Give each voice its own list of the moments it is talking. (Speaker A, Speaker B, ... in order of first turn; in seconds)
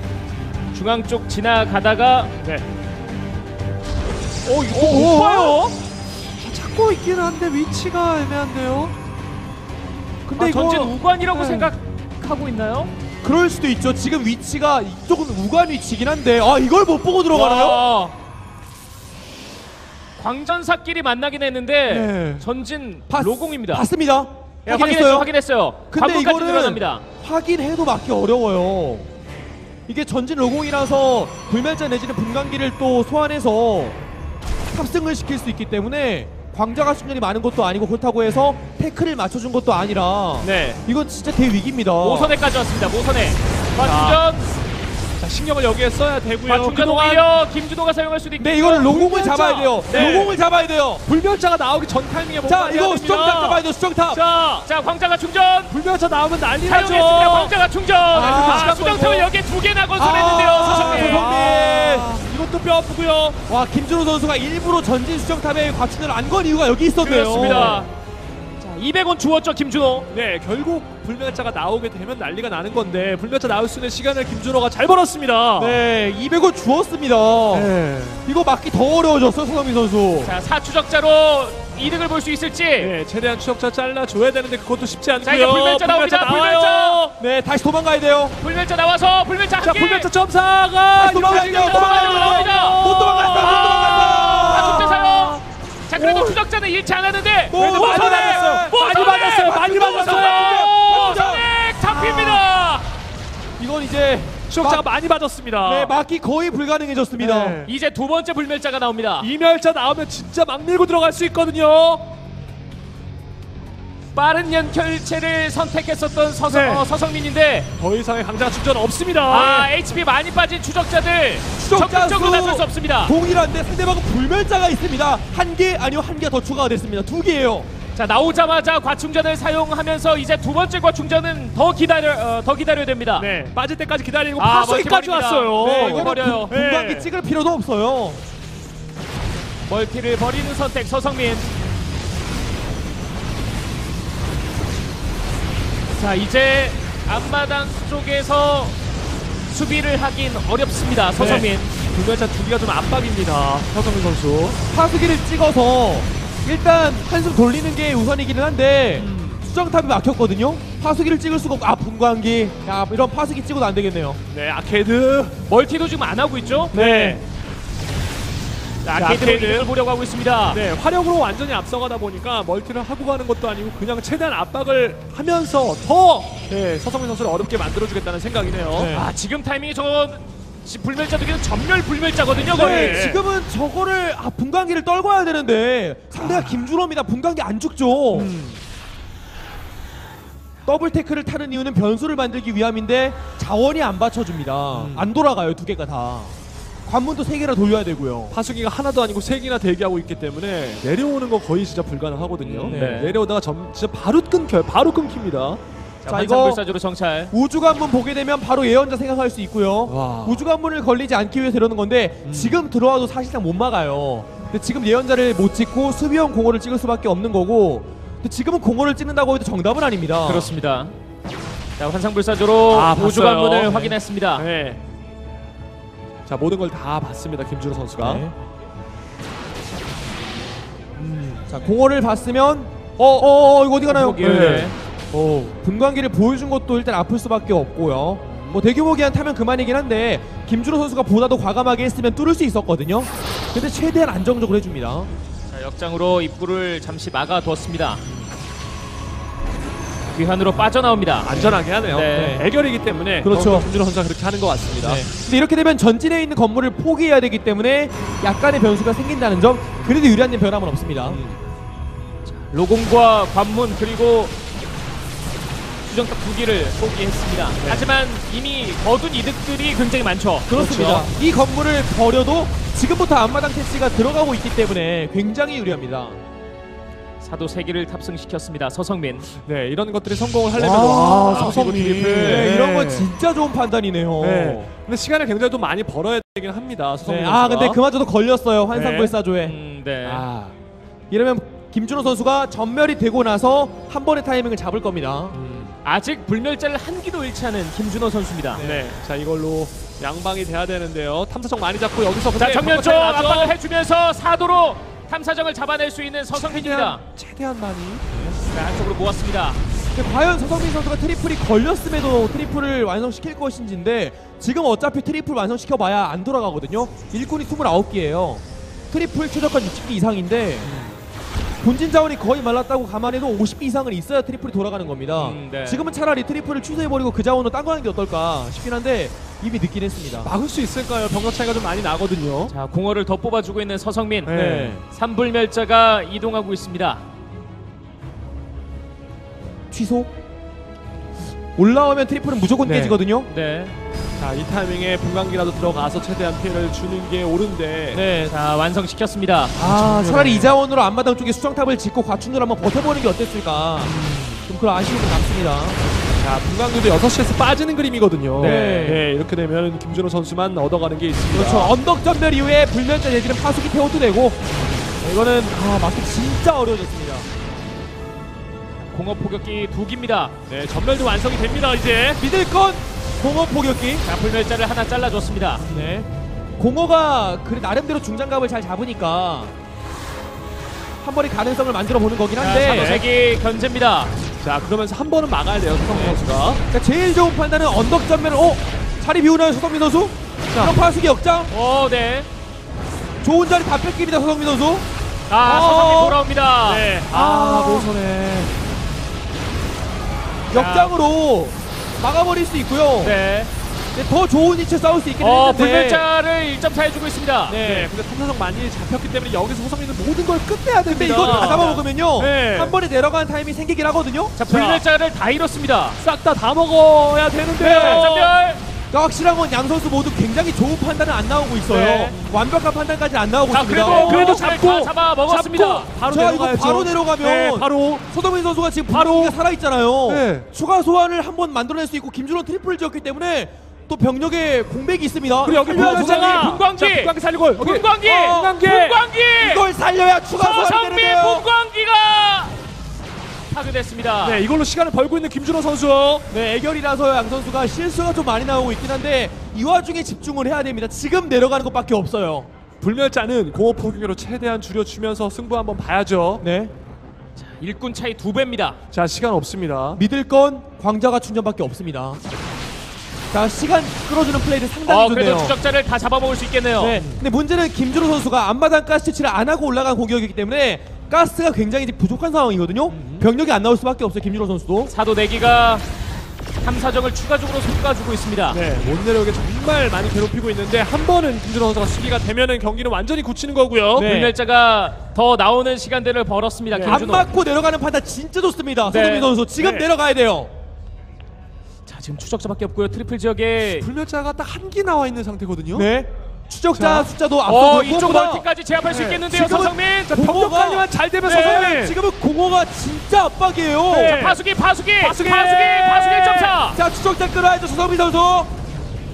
Speaker A: 0.7-2.3, 4.7-5.8, 10.4-12.9, 17.3-18.2, 20.2-23.9, 24.7-27.0, 42.0-44.5, 46.5-49.4, 54.6-55.8, 56.6-61.3, 67.0-67.9, 68.6-70.1, 80.2-83.0, 85.2-87.0, 88.4-90.1, 91.3-92.9, 93.4-102.9, 107.6-109.3, 114.1-117.7, 119.3-123.1, 127.9-133.3, 134.4-136.5, 139.6-141.5, 145.9-148.8, 149.5-151.7, 165.5-166.8, 168.9-170.6, 178.9-183.0, 202.4-203.2, 206.0-207.3, 220.2-220.9, 221.8-224.5, 233.9-234.8, 245.5-248.0, 250.1-252.4, 262.4-264.4, 265.9-270.6, 277.2-279.3, 281.3-281.6, 289.4-290.2, 295.8-298.6, 302.3-307.0, 308.5-309.6, 325.1-325.9, 332.5-334.4, 334.9-337.0, 343.3-343.7, 348.3-349.6, 358.4-359.0, 368.8-370.4, 374.1-375.6, 382.4-384.1, 391.5-392.3, 395.3-396.9, 400.5-400.9, 403.0-403.5, 405.2-407.6, 411.2-411.8, 414.4-416.0, 417.6-418.6, 421.8-422.1, 423.5-425.9, 435.6-439.7, 440.3-442.6, 443.5-444.4, 457.4-458.8, 464.9-467.0, 474.9-475.9, 476.6-478.6, 484.0-487.3, 488.9-489.4, 491.9-493.9, 497.5-500.2, 501.3-501.6, 503.9-506.8
Speaker B: 4.5-5.7, 6.4-8.9, 11.3-11.7, 21.9-22.5, 40.4-40.8, 43.8-44.2, 45.2-47.3, 49.1-50.4, 51.0-54.7, 55.7-57.6, 58.1-59.3, 60.6-63.4, 67.3-67.9, 70.1-75.8, 77.5-78.2, 82.8-87.2, 89.6-95.4, 96.0-96.4, 97.5-101.0, 102.0-102.3, 104.5-105.9, 107.2-107.7, 109.2-112.1, 116.5-116.9, 117.8-119.7, 133.2-137.1, 151.2-154.6, 159.0-159.4, 164.3-165.4, 166.7-167.2, 168.8-169.7, 170.5-178.9, 182.4-183.2, 186.2-186.6, 188.1-188.6, 194.7-195.1, 198.3-205.6, 209.9-210.4, 212.2-212.6, 222.7-224.8, 226.3-228.3, 231.0-231.4, 233.0-233.3, 234.2-235.4, 251.2-255.1, 261.1-261.4, 267.6-267.9, 270.5-271.1, 279.4-283.1, 284.2-287.8, 288.7-289.1, 290.0-290.5, 295.3-295.8, 298.6-303.5, 306.3-308.4, 320.6-321.0, 330.2-332.5, 334.2-334.8, 342.6-343.0, 344.2-348.1, 349.6-350.6, 353.8-354.4, 356.2-361.8, 370.5-372.2, 382.6-383.1, 384.4-386.6, 390.5-390.8, 396.7-398.5, 407.6-412.8, 414.5-414.8, 416.0-418.4, 421.7-422.1, 423.7-428.1, 428.9-429.4, 430.0-430.5, 435.4-439.0, 444.2-446.3, 452.8-456.4, 458.9-460.0, 467.0-467.2, 472.9-473.3, 478.5-484.1, 486.7-487.0, 489.6-489.9, 493.6-495.9, 496.7-497.1, 498.9-499.3, 500.1-502.0, 503.9-504.4, 505.0-506.6
Speaker C: 10.3-10.9, 13.2-17.8, 23.1-25.3, 25.9-29.1, 29.9-34.0, 34.7-42.3, 48.4-51.0, 52.4-54.2, 58.1-58.8, 60.0-62.1, 63.5-67.8, 75.6-77.7, 78.2-80.3, 87.2-88.4, 91.0-95.0, 97.5-102.4, 103.6-104.8, 105.6-107.6, 121.6-127.7, 135.6-138.2, 154.7-164.2, 166.7-167.2, 178.7-179.1, 182.5-188.3, 190.7-196.3, 196.9-198.3, 202.7-203.1, 206.1-206.6, 207.3-220.5, 228.0-228.3, 231.5-245.1, 252.1-252.4, 253.2-253.7, 254.8-261.2, 270.5-276.2, 280.5-284.6, 287.0-289.6, 291.1-295.4, 298.5-298.9, 309.9-320.7, 321.6-330.3, 334.3-334.8, 339.7-340.1, 341.6-343.3, 347.9-348.3, 349.6-353.9, 354.5-355.8, 358.4-359.0, 361.3-364.4, 365.0-367.3, 372.2-374.1, 375.7-379.5, 381.0-383.0, 386.7-391.5, 393.2-394.9, 395.4-396.2, 397.1-397.9, 400.5-403.2, 403.9-406.1, 407.5-407.9, 410.9-414.4, 417.6-418.1, 418.9-424.4, 426.1-436.6, 438.0-438.7, 439.4-441.5, 446.3-452.5, 456.4-456.7, 459.9-462.2, 463.3-465.6, 466.8-474.9, 483.9-484.4, 486.9-490.5, 495.7-498.5, 499.3-504.2, 506.7-508.5